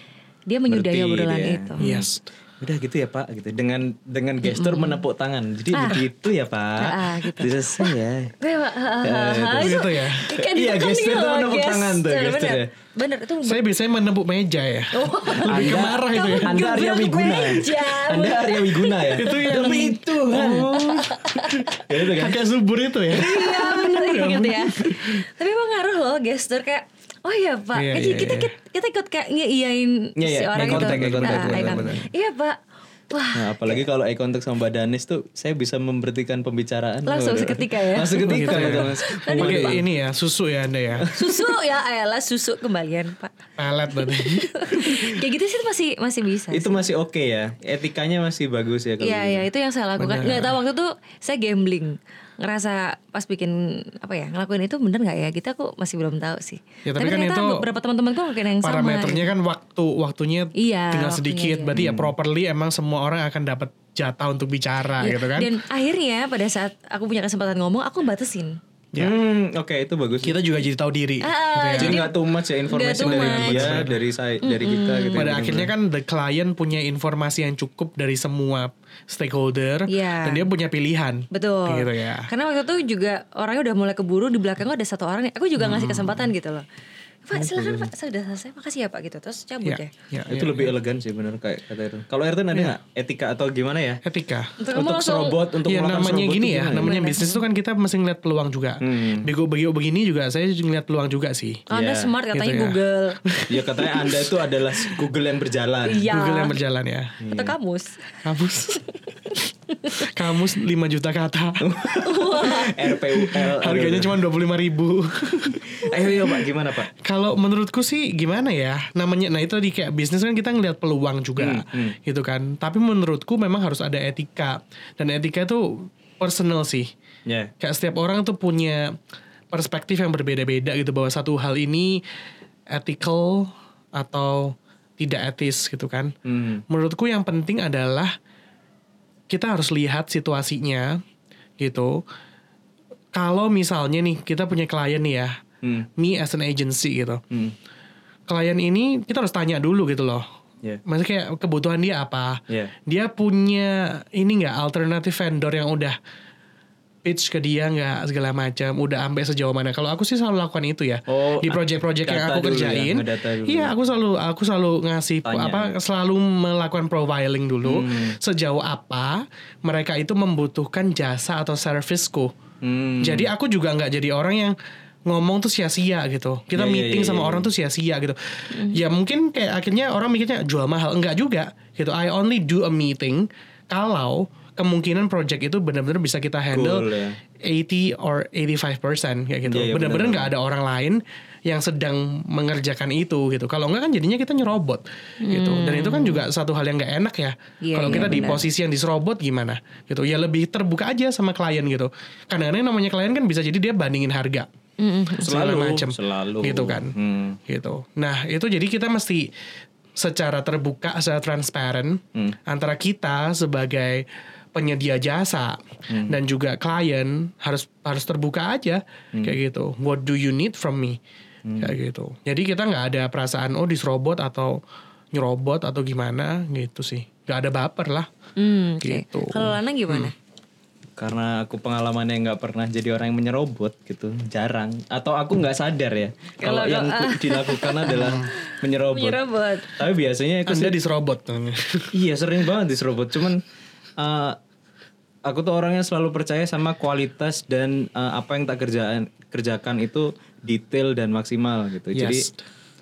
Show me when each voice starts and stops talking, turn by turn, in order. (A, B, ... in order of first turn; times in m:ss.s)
0:00.5-0:01.8 A
0:00.7-0:08.3 B
0:01.8-0:02.3 C
0:04.4-0:05.0 A
0:05.7-0:06.0 A
0:06.8-0:13.6 A
0:09.0-0:12.7 B
0:09.6-0:10.3 C
0:13.4-0:16.7 C
0:14.9-0:21.8 A
0:15.5-0:22.4 B
0:19.2-0:21.1 C
0:22.2-0:25.0 C
0:23.1-0:32.6 A
0:27.8-0:28.5 C
0:30.2-0:32.0 B
0:30.7-0:32.0 C
0:33.1-0:33.8 A
0:33.4-0:39.8 B
0:37.1-0:39.8 A
0:38.2-0:41.1 C
0:41.0-0:41.5 B
0:41.1-0:43.4 A
0:43.6-0:44.9 C
0:43.9-0:46.8 A
0:46.5-0:49.5 B
0:49.0-0:59.3 A
0:50.0-0:50.5 C
0:56.9-0:57.7 C
0:58.6-1:05.5 C
1:00.6-1:01.8 A
1:01.7-1:02.1 B
1:05.0-1:08.6 A
1:09.0-1:10.4 B
1:10.2-1:12.1 C
1:11.2-1:12.2 A
1:11.8-1:15.7 B
1:12.7-1:13.8 A
1:12.9-1:14.0 C
1:14.4-1:15.6 A
1:15.2-1:22.3 C
1:19.9-1:20.4 A
1:21.3-1:26.6 A
1:25.6-1:26.3 C
1:27.2-1:29.9 A
1:27.3-1:27.9 B
1:29.6-1:30.7 C
1:30.3-1:34.0 B
1:34.0-1:34.6 C
1:34.6-1:35.4 A
1:34.7-1:37.0 B
1:35.6-1:41.7 C
1:36.8-1:37.4 A
1:38.8-1:39.3 B
1:41.7-1:43.2 A
1:41.7-1:42.1 B
1:42.3-1:44.3 C
1:43.5-1:46.0 B
1:45.9-1:46.6 A
1:46.1-1:47.2 C
1:47.2-1:47.5 B
1:47.3-1:48.1 A
1:48.2-1:48.8 C
1:48.7-1:50.1 A
1:49.9-1:51.7 C
1:51.6-1:54.2 B
1:52.0-1:52.8 A
1:52.5-1:55.8 C
1:55.8-1:56.9 B
1:56.9-2:06.9 C
2:01.4-2:02.0 B
2:07.3-2:07.5 B
2:07.6-2:08.9 C
2:09.5-2:12.0 C
2:12.7-2:16.1 C
2:16.3-2:16.6 B
2:16.7-2:18.1 C
2:19.3-2:20.9 C
2:21.6-2:22.0 C
2:23.1-2:25.3 C
2:25.6-2:25.9 B
2:26.0-2:27.2 C
2:28.3-2:30.2 C
2:30.9-2:36.0 C
2:32.5-2:32.8 B
2:37.0-2:52.3 C
2:41.1-2:43.7 B
2:45.2-2:45.7 B
2:47.6-2:48.2 B
2:52.6-2:53.3 B
2:53.0-2:54.6 C
2:55.1-3:06.9 C
2:56.5-2:57.5 B
3:06.5-3:07.2 B
3:07.5-3:24.5 C
3:09.4-3:10.3 B
3:15.2-3:16.2 A
3:17.6-3:18.4 A
3:17.9-3:18.2 B
3:24.8-3:25.4 A
3:25.2-3:27.4 B
3:25.2-3:27.0 C
3:27.5-3:29.3 C
3:30.0-3:35.5 C
3:35.9-3:36.2 B
3:36.1-3:41.0 C
3:41.5-3:41.8 B
3:41.6-3:44.5 C
3:45.1-3:48.1 C
3:48.4-3:50.1 A
3:48.8-3:50.1 C
3:51.0-4:00.8 B
3:56.4-3:59.8 A
3:57.9-3:58.3 C
4:00.5-4:01.9 C
4:01.9-4:03.4 B
4:04.0-4:04.4 B
4:05.3-4:12.3 B
4:11.9-4:12.4 C